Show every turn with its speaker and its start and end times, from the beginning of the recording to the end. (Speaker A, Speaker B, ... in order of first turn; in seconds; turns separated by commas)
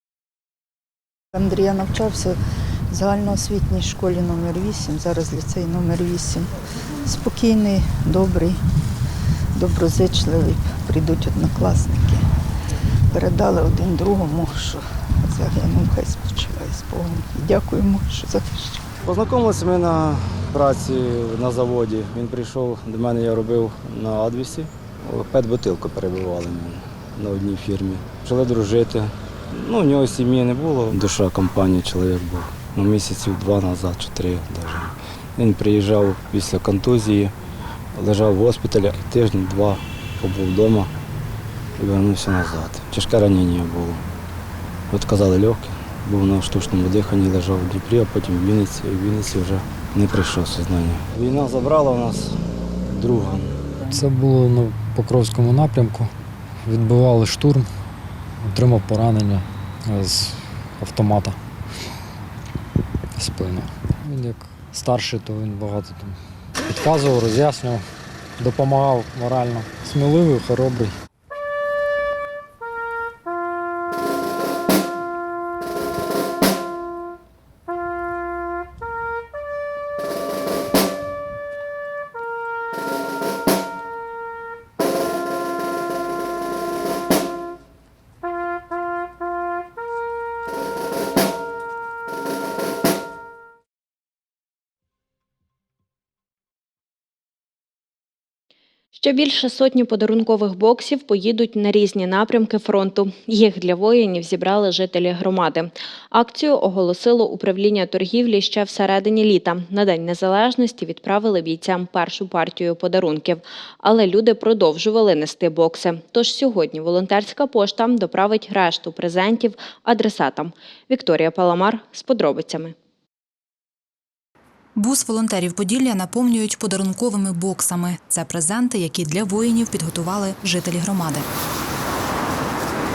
Speaker A: 1.3-2.4, Speaker A: 2.9-6.5, Speaker A: 7.0-8.6, Speaker A: 9.5-12.2, Speaker A: 13.1-18.8, Speaker B: 19.0-37.3, Speaker B: 37.9-40.9, Speaker B: 41.8-44.0, Speaker B: 44.9-52.3, Speaker B: 52.9-54.0, Speaker C: 53.9-56.1, Speaker C: 56.7-57.6, Speaker C: 58.5-61.4, Speaker C: 63.2-66.1, Speaker B: 64.8-65.1, Speaker C: 66.7-67.8, Speaker C: 68.4-70.9, Speaker D: 98.9-122.7, Speaker E: 124.8-131.2